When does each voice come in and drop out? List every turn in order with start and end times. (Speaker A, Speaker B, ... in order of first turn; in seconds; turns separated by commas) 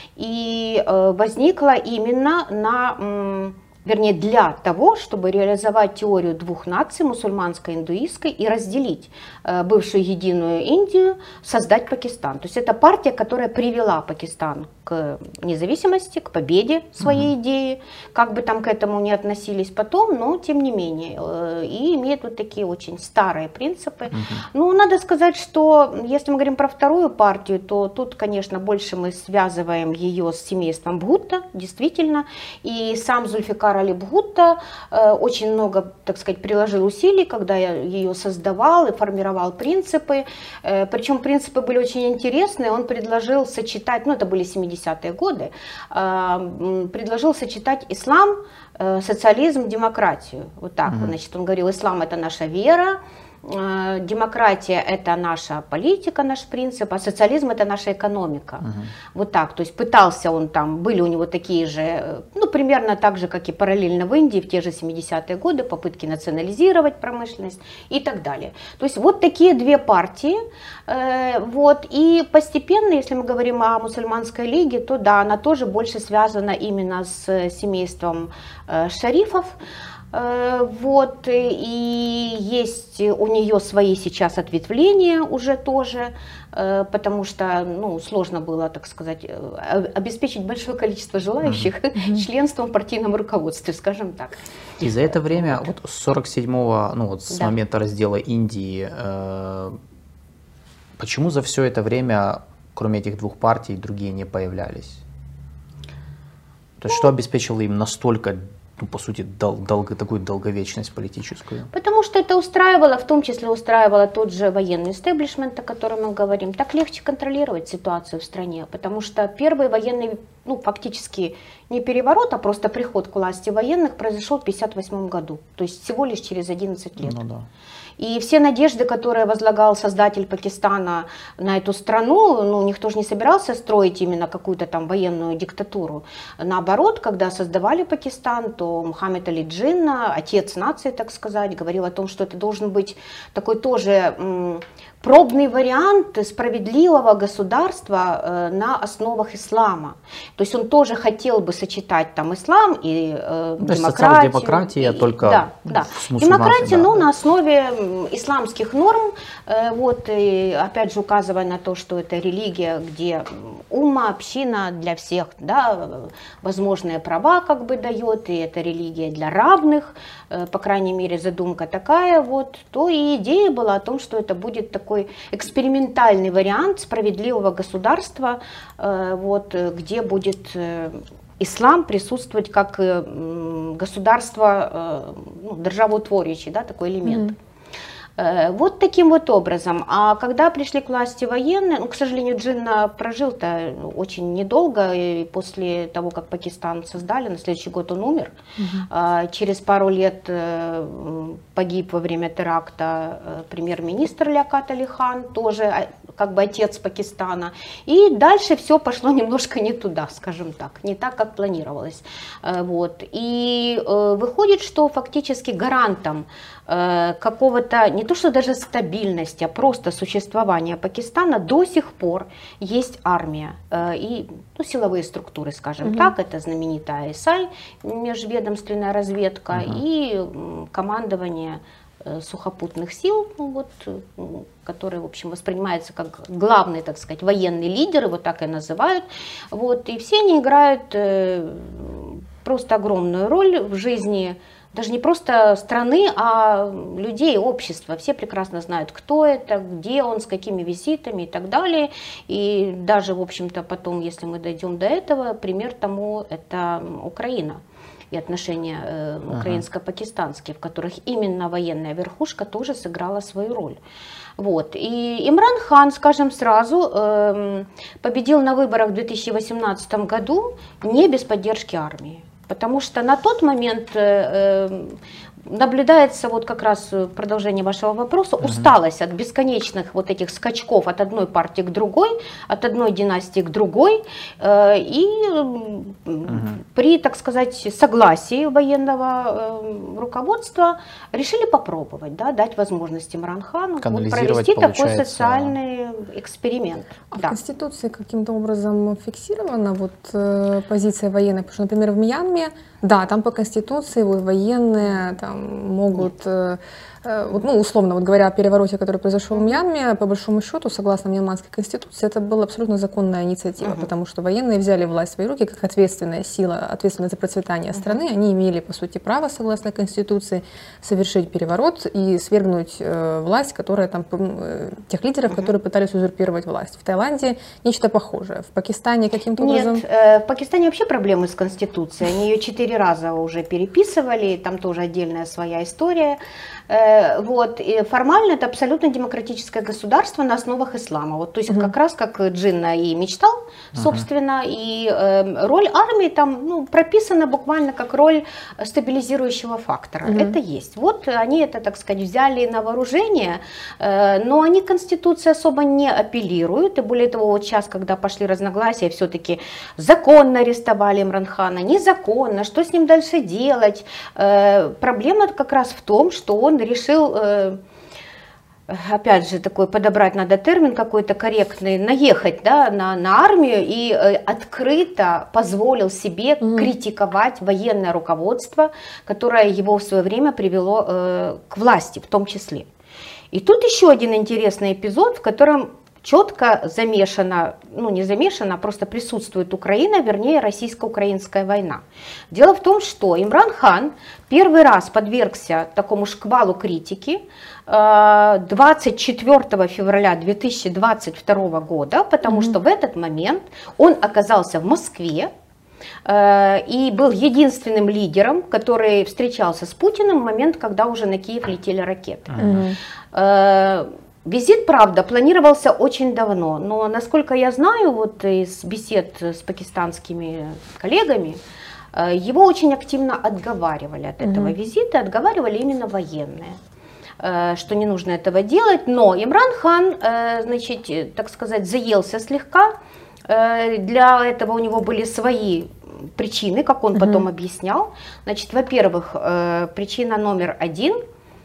Speaker A: 0.2-79.6, Speaker B: 17.0-17.3, Speaker B: 24.1-24.4, Speaker B: 58.6-58.9, Speaker A: 80.1-94.4, Speaker C: 92.0-92.2, Speaker B: 94.8-99.8, Speaker A: 95.1-95.7, Speaker B: 101.0-105.0, Speaker B: 106.8-111.7, Speaker A: 111.7-127.2, Speaker B: 127.0-127.5, Speaker A: 128.0-187.3, Speaker B: 153.6-157.0, Speaker C: 187.1-187.3, Speaker A: 188.2-198.3, Speaker C: 198.6-198.9, Speaker A: 198.9-257.6, Speaker B: 229.5-229.8, Speaker A: 258.1-263.8, Speaker B: 259.3-259.6, Speaker A: 264.4-297.4, Speaker B: 278.4-278.7, Speaker B: 286.3-286.6, Speaker B: 293.8-295.6, Speaker C: 297.1-329.8, Speaker A: 309.3-309.6, Speaker A: 313.6-313.9, Speaker A: 329.4-367.6, Speaker B: 343.8-344.1, Speaker C: 350.1-350.4, Speaker A: 368.7-382.7, Speaker C: 376.4-376.7, Speaker A: 383.3-405.3, Speaker C: 402.3-402.6, Speaker A: 406.1-412.5, Speaker B: 412.3-412.6, Speaker C: 412.4-412.8, Speaker A: 413.1-421.4, Speaker A: 421.9-426.6, Speaker C: 424.2-424.6, Speaker A: 427.2-432.8, Speaker A: 433.3-441.0, Speaker C: 436.9-437.2